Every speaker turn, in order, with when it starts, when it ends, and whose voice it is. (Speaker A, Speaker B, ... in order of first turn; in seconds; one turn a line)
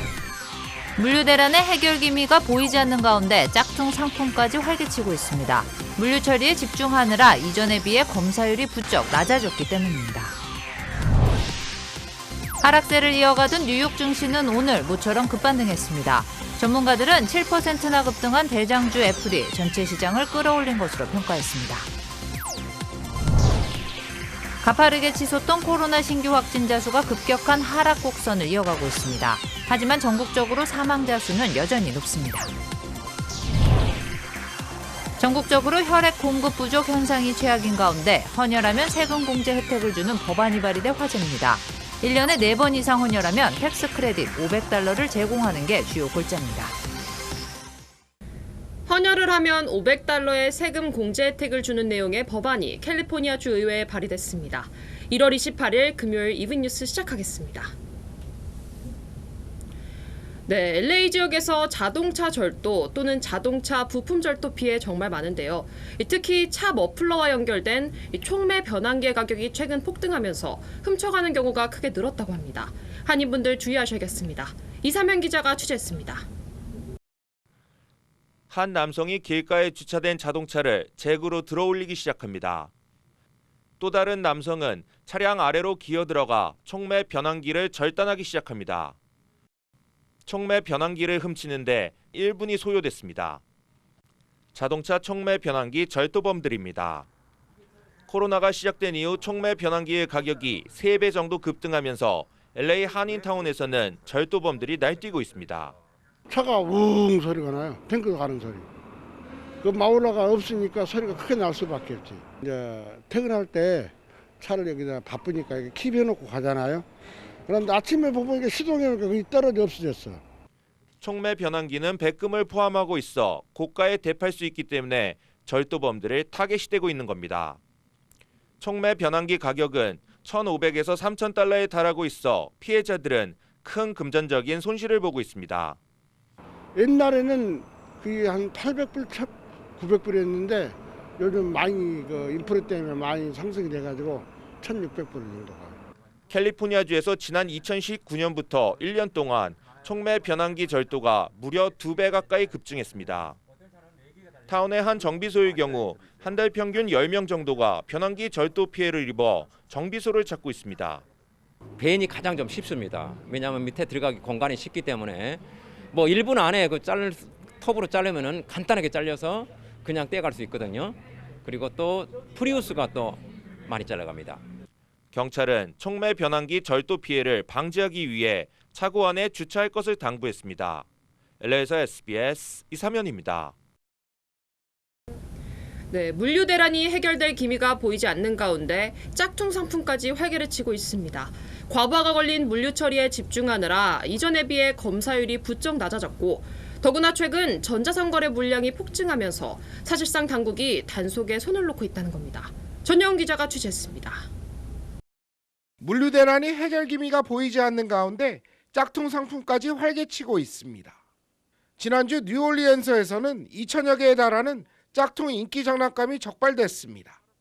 Speaker A: 1.0-10.4
Speaker A: 12.6-21.9
Speaker A: 24.6-32.5
Speaker A: 35.2-46.8
Speaker B: 48.9-57.7
Speaker B: 60.5-76.3
Speaker C: 78.5-82.7
Speaker C: 83.8-89.0
Speaker C: 90.3-93.4
Speaker C: 94.5-97.1
Speaker C: 98.1-105.8
Speaker D: 106.3-108.7
Speaker D: 109.6-116.9
Speaker D: 117.5-120.2
Speaker C: 121.0-127.6
Speaker C: 128.6-135.8
Speaker D: 136.8-145.8
Speaker C: 146.3-153.4
Speaker C: 154.5-161.0
Speaker E: 161.8-174.4
Speaker C: 175.1-180.9
Speaker C: 181.4-183.6
Speaker B: 185.9-204.3
Speaker F: 205.8-210.9
Speaker F: 211.8-217.2